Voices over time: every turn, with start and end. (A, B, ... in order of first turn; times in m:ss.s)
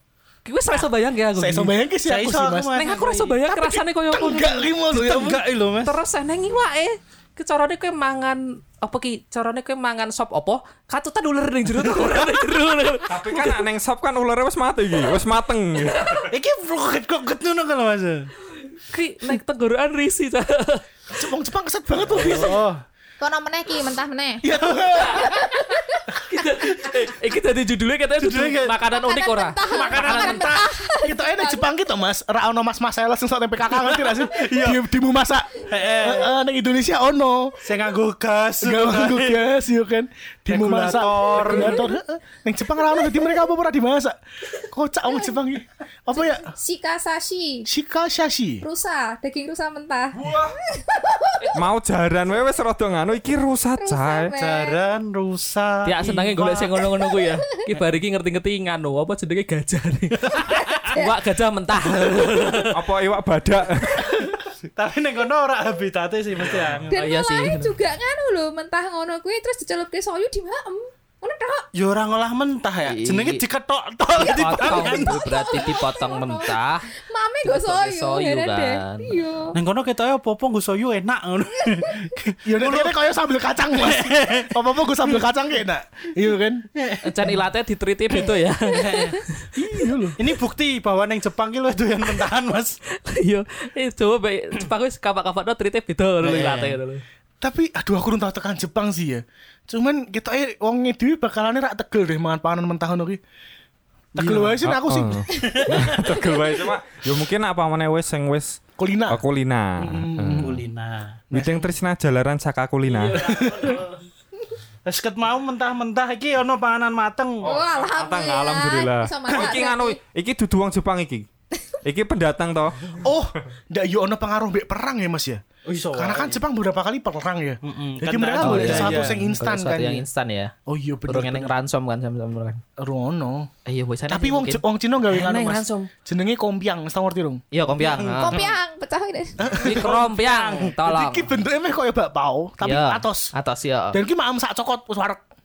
0:00.4-0:01.7 A
0:01.4-0:02.7 B
0:02.0-0:03.4 C
0:02.7-0:04.7 A
0:03.4-0:05.4 B
0:04.9-0:06.0 C
0:05.8-0:13.6 A
0:11.8-0:12.3 C
0:13.1-0:16.3 D
0:16.3-0:18.3 C
0:18.8-0:20.8 A
0:21.1-0:22.6 B
0:22.1-0:22.8 C
0:23.2-0:24.4 E
0:24.4-0:25.4 B
0:25.1-0:26.1 E
0:25.1-0:25.4 A
0:26.1-0:30.5 A
0:28.2-0:28.8 C
0:28.8-0:31.6 E
0:29.7-0:30.7 C
0:31.0-0:37.6 B
0:33.8-0:34.8 C
0:35.7-0:36.3 C
0:37.6-0:39.4 C
0:38.6-0:46.5 B
0:40.5-0:41.8 C
0:41.5-0:42.0 E
0:42.9-0:43.3 E
0:46.2-0:47.7 E
0:47.6-0:48.6 B
0:48.6-0:51.6 E
0:50.1-0:50.6 D
0:51.5-0:54.3 D
0:53.8-0:54.8 E
0:54.4-0:56.7 C
0:55.8-1:02.8 A
1:00.8-1:01.2 E
1:02.7-1:04.4 D
1:04.7-1:06.9 C
1:06.9-1:11.6 E
1:06.9-1:07.7 A
1:11.7-1:15.2 C
1:12.8-1:13.4 A
1:14.2-1:16.9 A
1:14.4-1:19.6 E
1:17.4-1:19.2 A
1:19.5-1:23.0 C
1:22.4-1:26.6 B
1:23.7-1:24.6 C
1:26.8-1:27.3 C
1:27.0-1:29.5 A
1:28.7-1:29.2 C
1:29.5-1:30.2 B
1:30.2-1:32.8 C
1:32.9-1:37.0 A
1:36.2-1:36.8 C
1:37.4-1:43.2 B
1:44.1-1:44.6 C
1:44.2-1:45.2 B
1:44.6-1:50.6 D
1:45.4-1:45.9 C
1:48.8-1:49.2 B
1:49.8-1:50.6 B
1:50.4-1:51.2 C
1:51.3-1:53.3 D
1:51.3-1:51.7 B
1:52.9-1:54.0 A
1:53.2-1:53.8 B
1:54.8-1:57.5 C
1:57.4-2:01.2 D
1:57.4-2:00.0 E
2:01.8-2:03.1 D
2:03.0-2:10.0 B
2:05.6-2:06.4 C
2:07.6-2:09.2 C
2:08.4-2:10.5 A
2:10.6-2:11.5 B
2:11.1-2:12.6 A
2:12.8-2:13.5 B
2:13.6-2:15.9 A
2:14.1-2:17.4 B
2:17.5-2:18.4 A
2:17.8-2:18.6 C
2:18.2-2:19.5 E
2:19.4-2:20.0 B
2:19.6-2:21.3 A
2:19.6-2:20.8 C
2:20.8-2:23.3 B
2:22.6-2:24.0 A
2:23.9-2:25.2 B